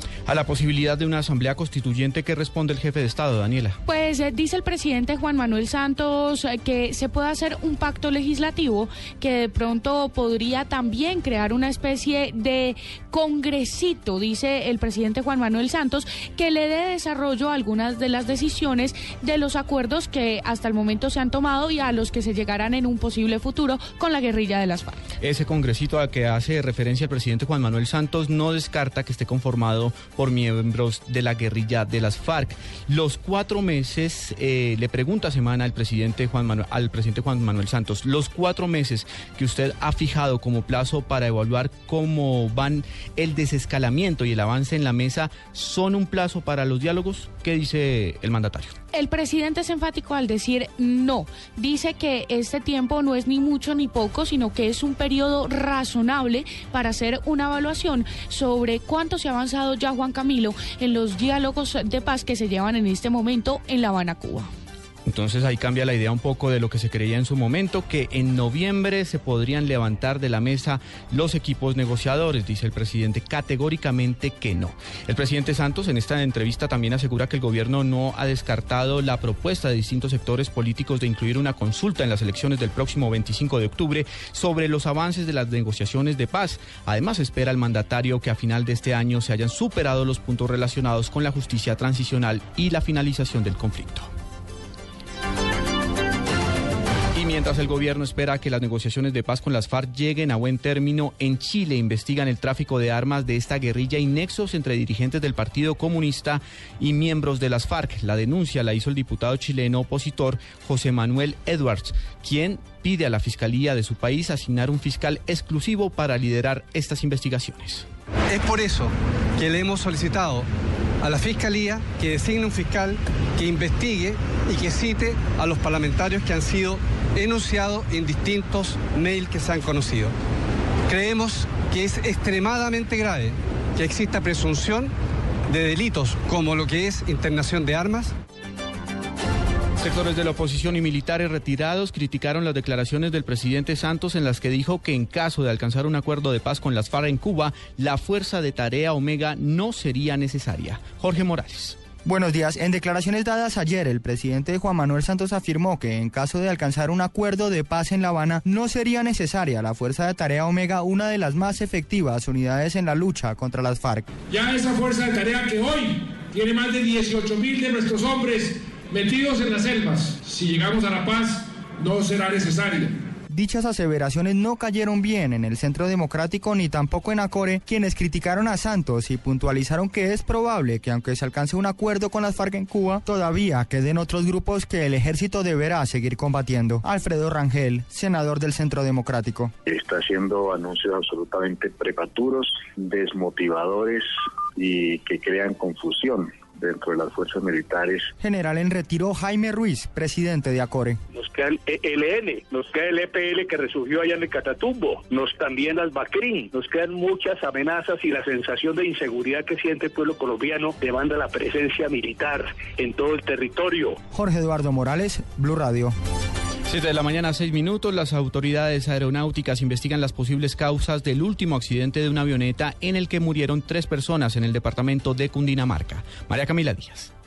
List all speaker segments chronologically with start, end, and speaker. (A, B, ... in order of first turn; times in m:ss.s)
0:00.2-0:03.8 A
0:03.8-0:25.0 B
0:25.2-0:48.7 A
0:48.9-1:04.5 B
1:05.0-1:34.1 A
1:37.1-1:57.8 A
1:58.3-2:00.4 C
2:01.0-2:10.1 C
2:10.9-2:14.9 C
2:15.5-2:18.1 C
2:19.8-2:31.8 A
2:32.0-2:44.1 D
2:44.3-2:52.9 E
2:53.3-3:09.5 D
3:09.7-3:14.0 F
3:14.6-3:18.0 F
3:18.2-3:21.0 D
3:21.1-3:34.0 G
3:34.1-3:35.9 D
3:36.7-3:47.1 A